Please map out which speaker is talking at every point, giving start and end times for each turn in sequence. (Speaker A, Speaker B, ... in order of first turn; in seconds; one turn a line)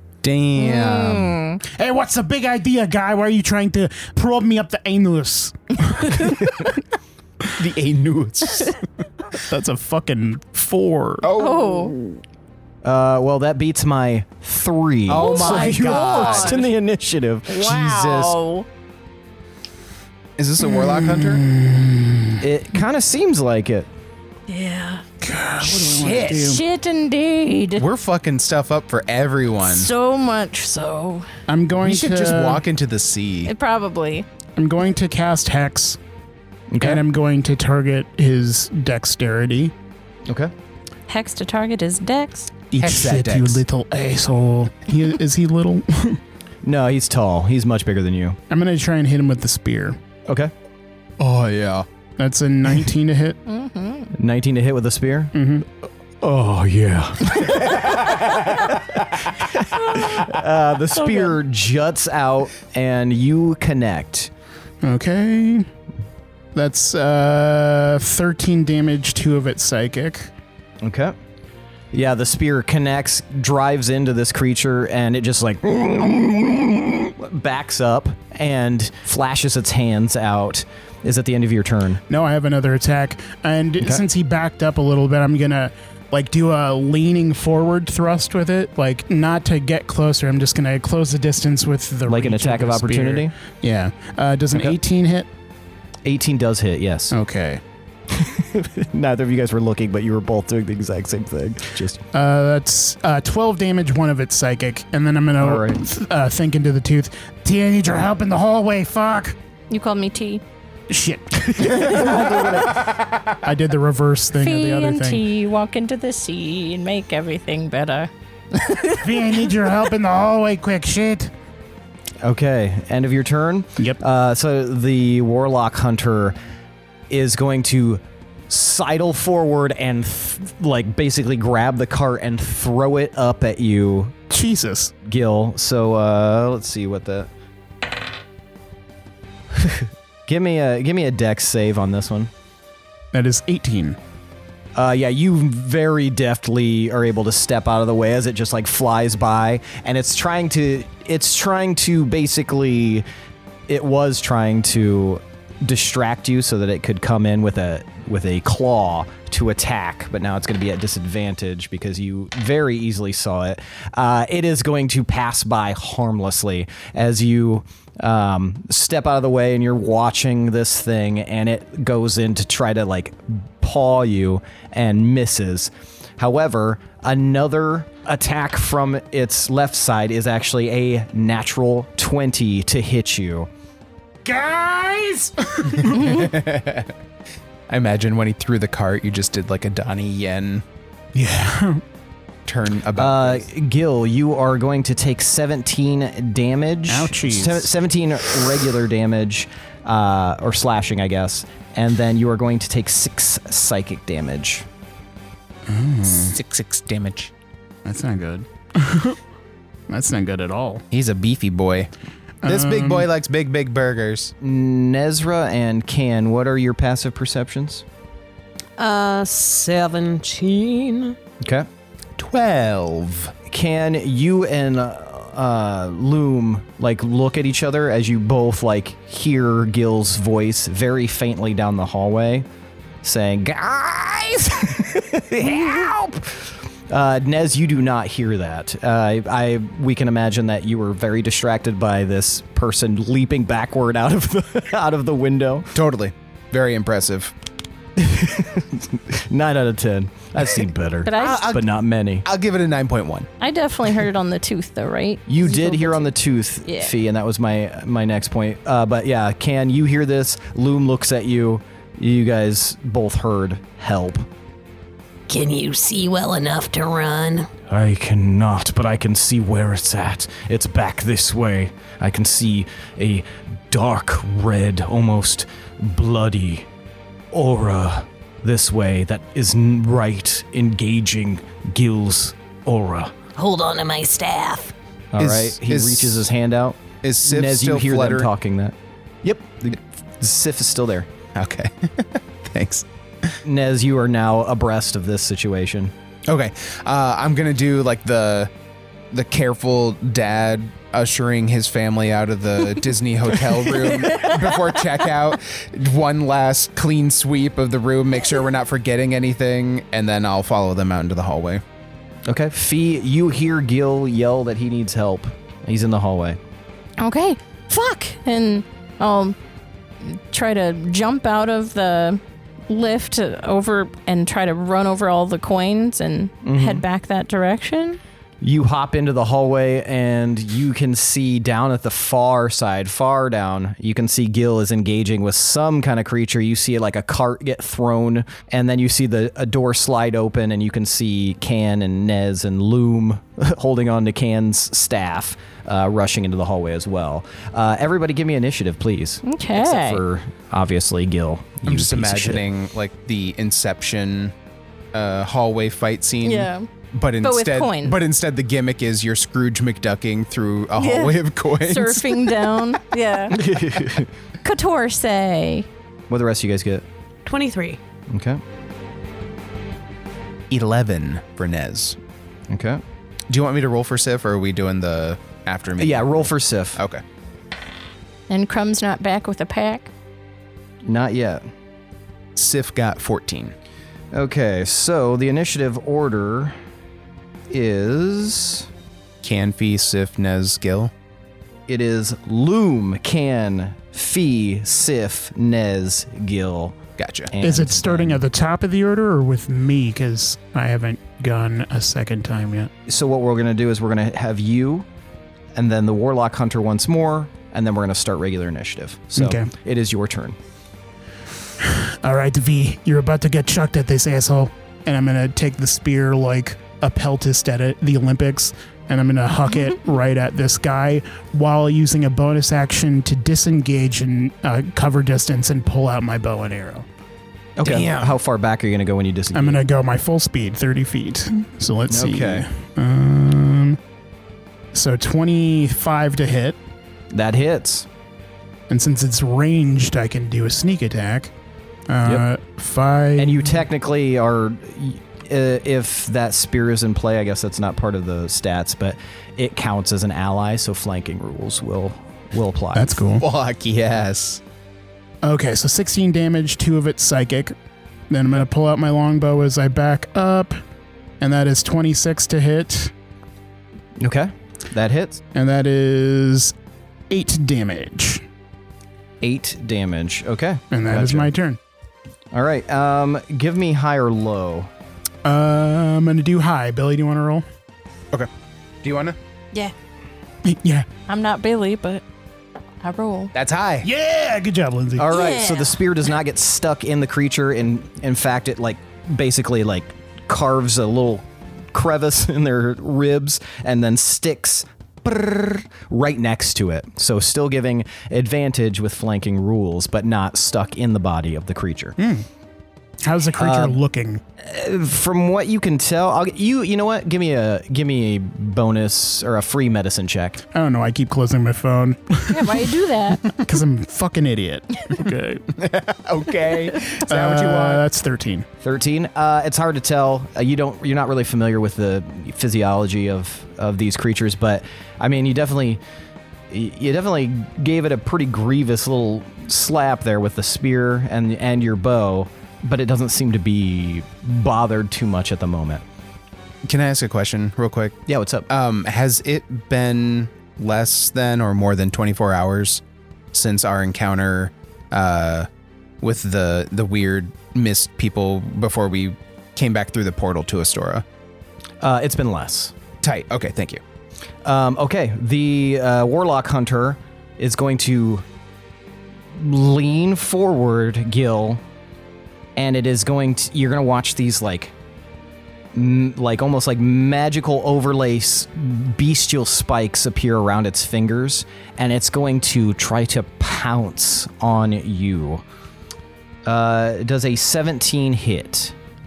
Speaker A: 0.2-1.4
Speaker B: 0.6-1.6
Speaker C: 1.6-6.7
Speaker A: 7.6-8.8
Speaker C: 9.4-11.3
Speaker A: 11.2-12.2
Speaker B: 11.4-11.9
Speaker D: 12.8-18.3
Speaker A: 15.1-16.7
Speaker B: 15.1-16.7
Speaker B: 17.5-18.7
Speaker A: 17.9-18.3
Speaker A: 20.4-21.4
Speaker C: 20.6-22.4
Speaker D: 22.4-23.9
Speaker B: 24.5-25.0
Speaker C: 25.2-26.6
Speaker A: 25.6-26.6
Speaker B: 26.3-27.9
Speaker A: 27.8-29.9
Speaker B: 29.6-31.3
Speaker C: 31.5-32.6
Speaker A: 31.8-33.5
Speaker B: 33.5-34.3
Speaker C: 34.6-36.0
Speaker D: 36.7-37.0
Speaker C: 36.8-39.7
Speaker D: 40.3-40.5
Speaker B: 41.1-42.5
Speaker C: 42.7-46.2
Speaker A: 42.8-43.6
Speaker D: 46.6-48.4
Speaker C: 48.5-50.0
Speaker D: 50.3-50.5
Speaker A: 51.2-51.9
Speaker C: 52.2-53.4
Speaker B: 53.5-54.1
Speaker D: 54.1-55.4
Speaker C: 55.3-55.6
Speaker D: 56.2-64.3
Speaker B: 61.0-61.4
Speaker C: 64.8-65.7
Speaker C: 66.5-70.3
Speaker D: 70.8-71.1
Speaker D: 71.9-82.0
Speaker C: 82.1-95.3
Speaker D: 92.1-93.3
Speaker D: 94.5-94.8
Speaker D: 96.0-97.1
Speaker C: 97.1-97.6
Speaker D: 98.1-102.0
Speaker C: 102.1-109.4
Speaker D: 105.4-105.8
Speaker B: 109.7-110.4
Speaker C: 110.9-112.4
Speaker D: 111.8-112.7
Speaker A: 112.8-113.2
Speaker C: 113.4-115.2
Speaker B: 114.4-119.0
Speaker C: 119.0-121.3
Speaker D: 122.2-126.4
Speaker D: 127.1-134.1
Speaker C: 134.3-134.9
Speaker D: 135.1-137.3
Speaker D: 139.5-142.3
Speaker C: 143.1-144.0
Speaker D: 144.7-153.1
Speaker D: 153.7-183.5
Speaker C: 184.2-186.3
Speaker A: 185.8-186.9
Speaker A: 187.7-190.6
Speaker C: 191.1-191.8
Speaker A: 192.4-193.5
Speaker D: 192.9-204.6
Speaker C: 196.9-197.7
Speaker C: 205.7-206.3
Speaker A: 206.1-207.3
Speaker C: 207.8-209.2
Speaker C: 209.9-210.8
Speaker A: 210.9-211.9
Speaker C: 212.4-213.1
Speaker A: 212.4-214.3
Speaker D: 214.4-217.8
Speaker E: 218.8-221.1
Speaker D: 221.4-221.7
Speaker A: 222.2-223.3
Speaker D: 223.5-232.4
Speaker D: 233.0-245.7
Speaker A: 245.7-247.3
Speaker D: 247.9-252.3
Speaker B: 251.1-251.5
Speaker A: 251.1-251.7
Speaker A: 252.2-253.3
Speaker B: 253.4-256.1
Speaker D: 255.3-264.3
Speaker B: 256.6-256.9
Speaker F: 265.3-267.5
Speaker D: 267.7-276.7
Speaker D: 277.3-283.1
Speaker F: 283.4-284.7
Speaker D: 285.1-291.1
Speaker A: 285.2-286.2
Speaker A: 287.0-288.3
Speaker A: 291.4-293.4
Speaker D: 293.4-295.9
Speaker A: 296.3-298.5
Speaker A: 299.1-311.6
Speaker D: 312.3-316.4
Speaker B: 317.0-319.4
Speaker B: 320.0-328.0
Speaker D: 326.4-326.8
Speaker D: 328.4-352.4
Speaker B: 349.2-350.0
Speaker A: 351.6-354.3
Speaker A: 354.9-362.5
Speaker B: 356.2-356.7
Speaker B: 357.2-358.0
Speaker B: 360.8-363.4
Speaker D: 363.3-364.1
Speaker B: 364.4-365.7
Speaker D: 366.1-366.8
Speaker E: 367.3-367.8
Speaker D: 368.1-368.4
Speaker A: 370.5-372.0
Speaker D: 372.5-372.8
Speaker A: 373.3-377.0
Speaker D: 375.8-376.8
Speaker B: 378.3-379.9
Speaker D: 380.9-381.4
Speaker A: 382.4-383.5
Speaker D: 384.1-386.6
Speaker D: 387.5-388.7
Speaker A: 389.2-390.9
Speaker D: 391.7-396.8
Speaker A: 397.0-397.3
Speaker D: 397.3-398.2
Speaker C: 397.4-402.7
Speaker D: 402.9-404.9
Speaker D: 405.6-410.4
Speaker C: 409.1-409.5
Speaker C: 411.6-426.9
Speaker D: 427.6-429.6
Speaker F: 427.6-427.9
Speaker C: 429.4-433.8
Speaker D: 431.9-432.4
Speaker C: 434.7-436.6
Speaker D: 437.1-437.9
Speaker C: 438.7-441.3
Speaker C: 441.9-443.6
Speaker D: 443.2-453.0
Speaker C: 452.7-453.2
Speaker A: 453.2-454.4
Speaker C: 455.2-457.5
Speaker C: 458.1-460.6
Speaker C: 461.2-462.9
Speaker D: 464.0-465.2
Speaker C: 465.3-466.5
Speaker C: 467.1-468.2
Speaker D: 469.2-471.3
Speaker C: 470.7-471.6
Speaker D: 472.3-474.7
Speaker C: 475.2-477.4
Speaker A: 478.8-479.2
Speaker C: 480.4-480.9
Speaker B: 481.1-482.0
Speaker B: 482.8-483.3
Speaker A: 483.3-483.9
Speaker C: 483.8-485.1
Speaker D: 485.0-502.0
Speaker F: 485.1-485.6
Speaker C: 502.0-502.3
Speaker C: 503.0-504.2
Speaker D: 503.4-503.8
Speaker D: 504.4-510.4
Speaker C: 510.5-515.5
Speaker B: 512.3-513.2
Speaker A: 515.5-517.9
Speaker C: 517.1-518.5
Speaker D: 518.6-525.8
Speaker D: 526.5-535.8
Speaker A: 536.6-542.8
Speaker D: 538.1-538.5
Speaker A: 543.3-545.5
Speaker A: 546.0-551.0
Speaker D: 551.8-552.7
Speaker A: 553.0-553.8
Speaker D: 554.5-558.2
Speaker D: 559.4-561.6
Speaker D: 562.6-564.7
Speaker D: 565.7-575.4
Speaker D: 576.5-578.7